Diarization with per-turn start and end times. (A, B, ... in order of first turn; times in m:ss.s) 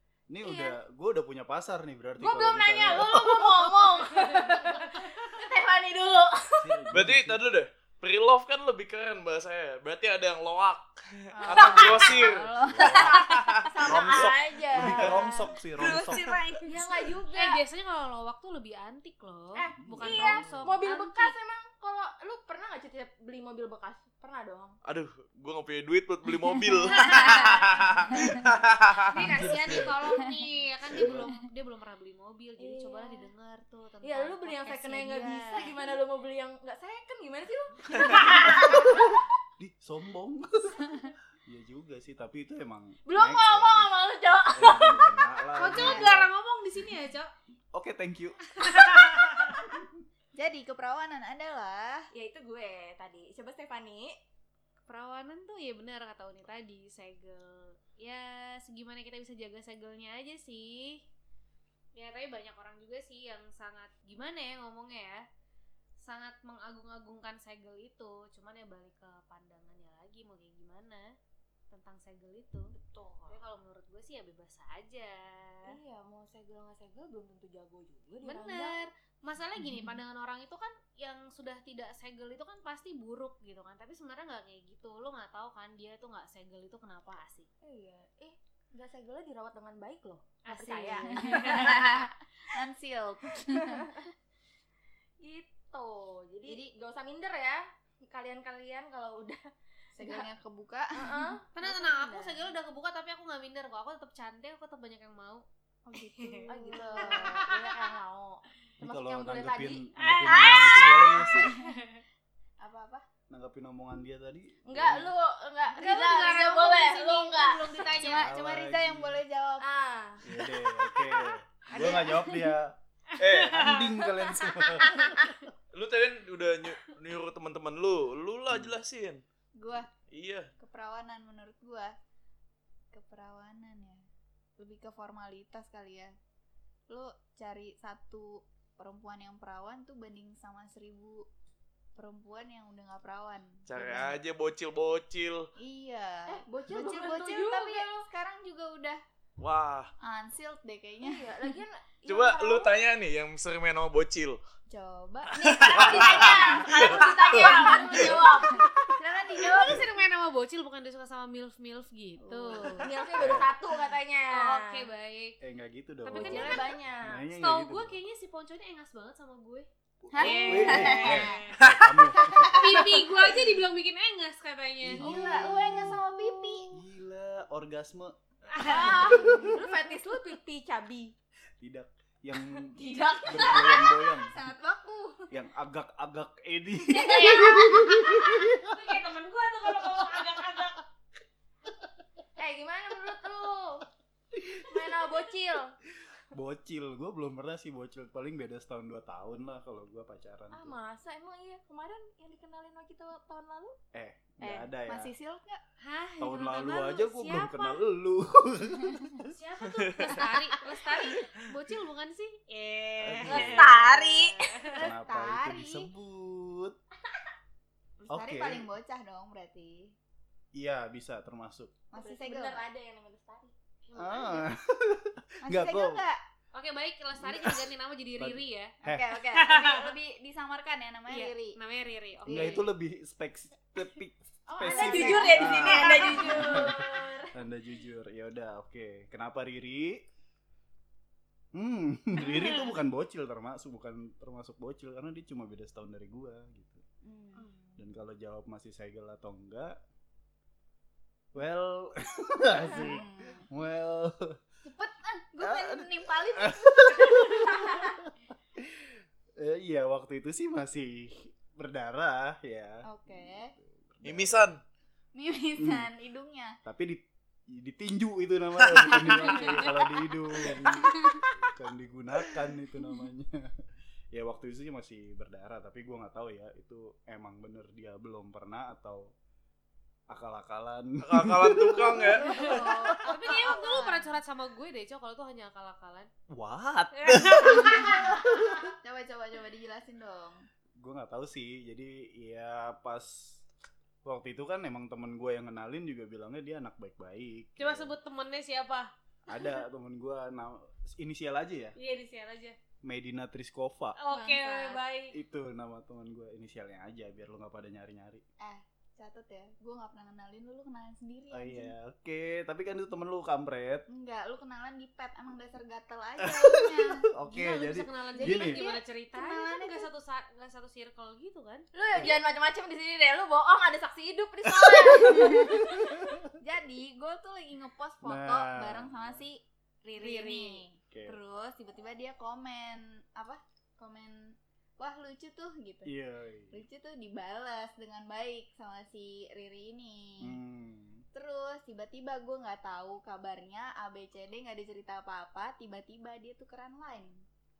0:00.3-0:03.9 A
0:00.4-0:00.7 B
0:02.2-0:06.8 B
0:04.3-0:04.7 C
0:06.6-0:07.4 A
0:06.9-0:14.2 D
0:11.4-0:13.3 E
0:11.5-0:11.9 B
0:12.7-0:16.6 A
0:13.5-0:15.5 B
0:14.8-0:15.3 D
0:15.8-0:16.3 D
0:15.8-0:17.1 E
0:16.6-0:17.6 B
0:17.3-0:21.3 C
0:19.5-0:24.8 B
0:19.8-0:20.6 A
0:24.8-0:29.3 D
0:26.8-0:27.2 E
0:28.2-0:28.4 E
0:29.1-0:35.7 C
0:29.2-0:30.0 A
0:29.2-0:29.9 B
0:30.9-0:31.3 A
0:32.6-0:33.3 B
0:34.0-0:39.0 B
0:37.9-0:38.2 D
0:38.4-0:39.1 A
0:39.6-0:43.9 A
0:43.1-0:45.1 B
0:44.5-0:46.3 A
0:45.6-0:47.3 C
0:45.7-0:46.1 E
0:47.7-0:48.4 A
0:48.6-0:49.5 C
0:50.3-0:52.1 E
0:52.1-0:54.2 B
0:54.9-1:01.0 C
1:01.9-1:05.2 C
1:06.0-1:11.2 C
1:11.7-1:12.7 C
1:12.7-1:13.4 B
1:13.3-1:15.8 C
1:15.6-1:18.9 B
1:18.2-1:27.5 C
1:27.6-1:31.8 B
1:30.4-1:32.1 C
1:31.0-1:33.9 E
1:35.2-1:39.4 B
1:40.0-1:41.3 E
1:40.0-1:40.3 B
1:40.9-1:42.5 B
1:41.6-1:45.4 C
1:45.9-1:47.5 E
1:46.2-1:47.5 C
1:46.4-1:51.4 B
1:48.8-1:51.5 A
1:50.0-1:52.0 C
1:52.6-1:53.0 E
1:53.3-1:55.2 A
1:54.7-1:57.9 B
1:55.8-1:58.3 C
1:57.8-1:59.6 E
1:58.0-1:59.2 A
1:59.6-2:00.2 B
2:00.2-2:02.8 A
2:01.7-2:02.5 E
2:03.2-2:04.0 C
2:03.2-2:03.6 D
2:03.4-2:05.3 A
2:05.7-2:09.2 D
2:08.5-2:08.8 A
2:09.6-2:09.9 E
2:10.1-2:10.5 D
2:10.6-2:12.0 E
2:12.9-2:14.0 E
2:14.6-2:16.2 E
2:16.9-2:21.3 E
2:22.0-2:24.2 E
2:23.7-2:25.5 D
2:25.6-2:29.0 E
2:26.3-2:28.0 B
2:29.4-2:29.9 D
2:30.0-2:31.6 E
2:31.0-2:32.8 B
2:32.1-2:34.4 D
2:34.7-2:39.9 E
2:35.3-2:38.0 D
2:35.7-2:38.7 B
2:39.3-2:42.9 C
2:42.2-2:43.4 E
2:42.8-2:44.9 B
2:43.1-2:43.5 A
2:44.3-2:45.4 C
2:45.4-2:48.0 A
2:46.0-2:46.7 C
2:46.1-2:47.3 B
2:47.4-2:49.7 C
2:50.0-2:52.8 A
2:50.1-2:51.4 E
2:50.2-2:51.2 B
2:50.2-2:51.6 C
2:51.6-2:52.0 D
2:52.4-2:52.7 E
2:52.5-2:55.1 C
2:54.8-2:55.5 A
2:55.0-2:56.8 B
2:55.0-2:56.0 E
2:56.7-2:58.2 A
2:58.6-2:58.9 C
2:58.6-3:01.2 B
2:58.7-2:59.6 A
3:01.6-3:04.4 A
3:02.7-3:03.8 B
3:03.5-3:05.3 E
3:05.3-3:08.6 A
3:07.0-3:08.1 B
3:07.1-3:07.5 C
3:07.1-3:07.6 E
3:08.5-3:10.8 C
3:12.4-3:13.9 B
3:14.4-3:14.9 A
3:14.7-3:15.8 B
3:16.3-3:20.8 A
3:20.5-3:23.8 B
3:23.9-3:25.1 A
3:24.4-3:24.7 B
3:24.9-3:25.6 E
3:25.8-3:27.8 C
3:26.2-3:29.3 A
3:29.3-3:34.7 C
3:29.6-3:30.2 D
3:33.0-3:34.2 A
3:33.2-3:34.6 B
3:34.7-3:35.9 E
3:34.7-3:36.8 A
3:38.0-3:40.0 E
3:38.1-3:38.7 A
3:40.5-3:41.8 A
3:41.9-3:42.7 E
3:42.0-3:43.5 B
3:43.9-3:44.5 C
3:44.0-3:46.0 A
3:45.4-3:46.2 E
3:46.5-3:48.8 C
3:47.2-3:47.7 A
3:48.2-3:49.1 A
3:48.8-3:51.6 E
3:49.3-3:49.9 C
3:51.1-3:52.7 C
3:52.3-4:00.0 A
3:54.5-3:57.3 B
3:54.6-3:56.7 E
4:01.5-4:06.8 A
4:07.0-4:07.5 E
4:07.4-4:07.8 B
4:07.8-4:09.8 A
4:11.3-4:14.4 A
4:12.6-4:13.5 E
4:14.6-4:18.0 E
4:15.4-4:22.9 A
4:22.8-4:23.5 E
4:23.6-4:24.5 A
4:24.0-4:24.6 D
4:25.1-4:26.6 E
4:25.6-4:25.9 A
4:26.6-4:33.5 A
4:28.6-4:29.4 D
4:30.6-4:31.2 E
4:34.1-4:39.1 A
4:40.1-4:43.2 A
4:41.0-4:42.6 D
4:41.8-4:44.2 E
4:43.0-4:46.1 C
4:46.3-4:48.7 A
4:47.7-4:48.0 E
4:48.8-4:50.4 E
4:50.8-4:53.4 A
4:54.0-4:58.0 A
4:57.6-4:58.9 C
4:59.3-5:01.8 A
5:01.8-5:02.6 C
5:02.8-5:04.0 A
5:04.0-5:05.2 C
5:04.1-5:04.8 E
5:05.1-5:08.2 A
5:08.4-5:11.7 E
5:11.3-5:13.9 A
5:13.9-5:17.1 E
5:16.2-5:18.7 A
5:17.3-5:21.6 C
5:18.2-5:19.9 E
5:21.7-5:25.5 B
5:24.5-5:26.2 A
5:25.0-5:25.7 E
5:26.4-5:29.4 E
5:28.0-5:29.2 A
5:29.9-5:30.6 C
5:29.9-5:35.9 E
5:30.9-5:31.2 A
5:35.8-5:36.6 A
5:36.5-5:40.4 E
5:40.2-5:41.0 A
5:41.1-5:47.2 E